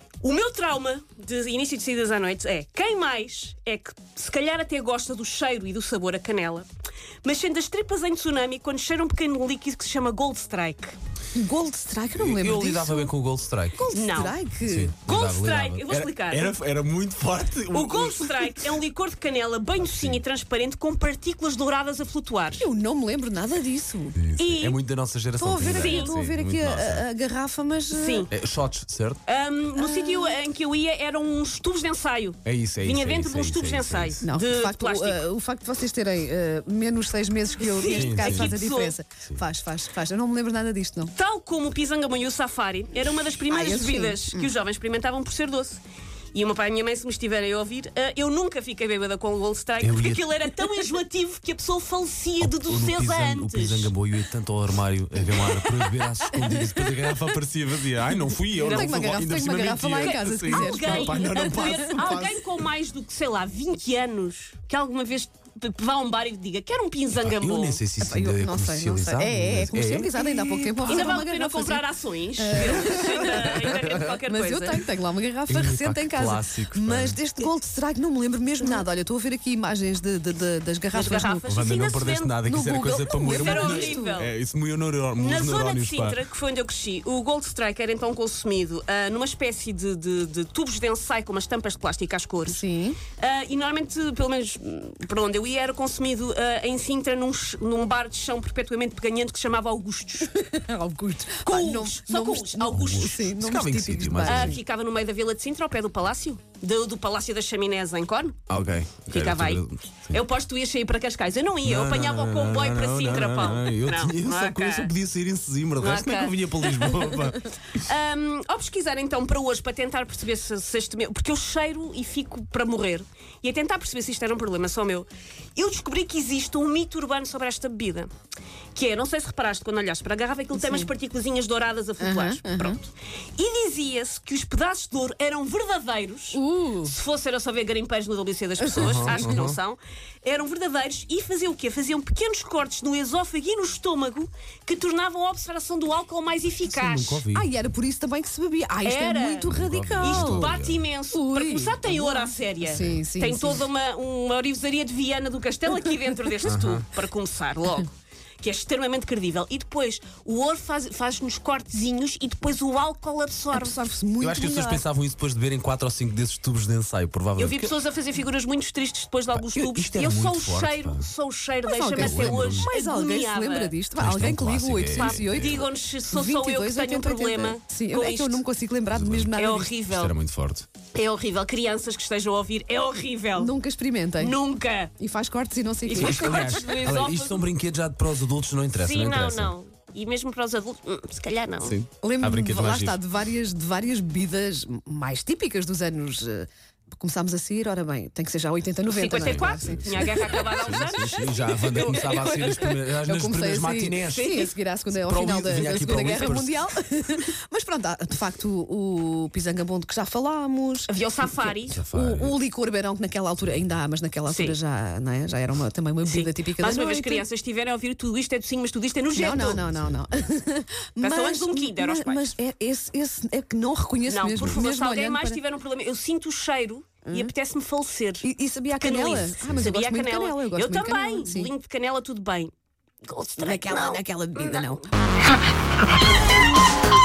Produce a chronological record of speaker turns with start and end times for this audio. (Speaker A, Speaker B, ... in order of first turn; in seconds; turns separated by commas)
Speaker A: 0.2-6.7, Speaker A: 7.2-10.9, Speaker B: 11.3-13.1, Speaker C: 12.1-13.9, Speaker B: 13.7-14.9, Speaker A: 13.9-14.4, Speaker C: 14.6-18.7, Speaker A: 15.0-16.5, Speaker A: 17.7-22.6, Speaker C: 19.8-20.2, Speaker B: 22.6-24.2, Speaker C: 24.1-27.1, Speaker A: 24.4-24.8, Speaker B: 25.4-28.3, Speaker A: 25.7-26.1, Speaker A: 27.9-28.3, Speaker C: 28.3-29.2, Speaker A: 29.2-35.2, Speaker B: 29.8-30.4, Speaker C: 32.4-34.2, Speaker B: 34.2-41.1, Speaker A: 37.6-39.0, Speaker C: 37.9-38.6, Speaker A: 41.1-45.8, Speaker B: 43.5-44.5, Speaker A: 46.3-53.9, Speaker C: 49.8-50.3, Speaker C: 52.4-62.5, Speaker A: 55.4-56.4, Speaker B: 56.5-57.2, Speaker A: 58.6-59.0, Speaker B: 58.6-62.3, Speaker A: 60.0-67.8, Speaker C: 67.2-71.1, Speaker B: 68.0-71.8, Speaker A: 70.8-74.8, Speaker B: 72.4-81.5, Speaker C: 73.6-74.0, Speaker C: 75.5-77.2, Speaker A: 80.9-82.3, Speaker C: 81.5-86.2, Speaker B: 82.4-84.2, Speaker A: 83.2-84.3, Speaker A: 85.2-100.4, Speaker B: 92.5-93.0, Speaker B: 100.3-104.6, Speaker A: 101.4-103.3, Speaker C: 102.7-104.6, Speaker A: 104.2-108.4, Speaker C: 108.5-110.2, Speaker A: 109.1-114.9, Speaker C: 111.6-117.5, Speaker A: 115.8-128.1, Speaker A: 128.7-147.2, Speaker B: 130.5-130.9, Speaker B: 132.0-132.8, Speaker B: 136.3-136.9, Speaker B: 138.6-139.5, Speaker C: 138.7-139.6, Speaker C: 146.6-147.5, Speaker B: 147.3-150.5, Speaker A: 148.8-157.9, Speaker C: 149.4-150.8, Speaker B: 151.1-153.7, Speaker C: 152.7-153.0, Speaker C: 156.4-156.8, Speaker A: 158.4-163.8, Speaker B: 163.5-164.8, Speaker C: 164.2-167.7, Speaker A: 167.3-173.8, Speaker C: 169.3-171.1, Speaker B: 171.6-179.7, Speaker C: 172.0-172.7, Speaker C: 174.0-175.6, Speaker A: 174.9-178.4, Speaker C: 178.9-179.3, Speaker A: 179.3-180.1, Speaker C: 179.9-180.7, Speaker A: 180.9-183.5, Speaker B: 183.4-184.4, Speaker A: 184.2-184.9, Speaker B: 185.0-186.6, Speaker A: 185.8-187.5, Speaker C: 185.9-189.5, Speaker A: 188.7-191.8, Speaker C: 191.6-193.0, Speaker B: 192.0-217.3, Speaker A: 198.9-202.6, Speaker C: 199.2-204.4, Speaker A: 204.1-204.5, Speaker C: 204.9-207.2, Speaker A: 210.9-211.8, Speaker C: 211.7-212.4, Speaker A: 214.2-214.6, Speaker A: 216.0-219.6, Speaker B: 219.1-225.4, Speaker C: 219.6-220.0, Speaker A: 221.0-222.3, Speaker A: 224.1-232.5, Speaker B: 227.1-227.3, Speaker B: 228.2-231.5, Speaker C: 229.3-229.7, Speaker A: 233.1-234.8, Speaker B: 233.4-234.8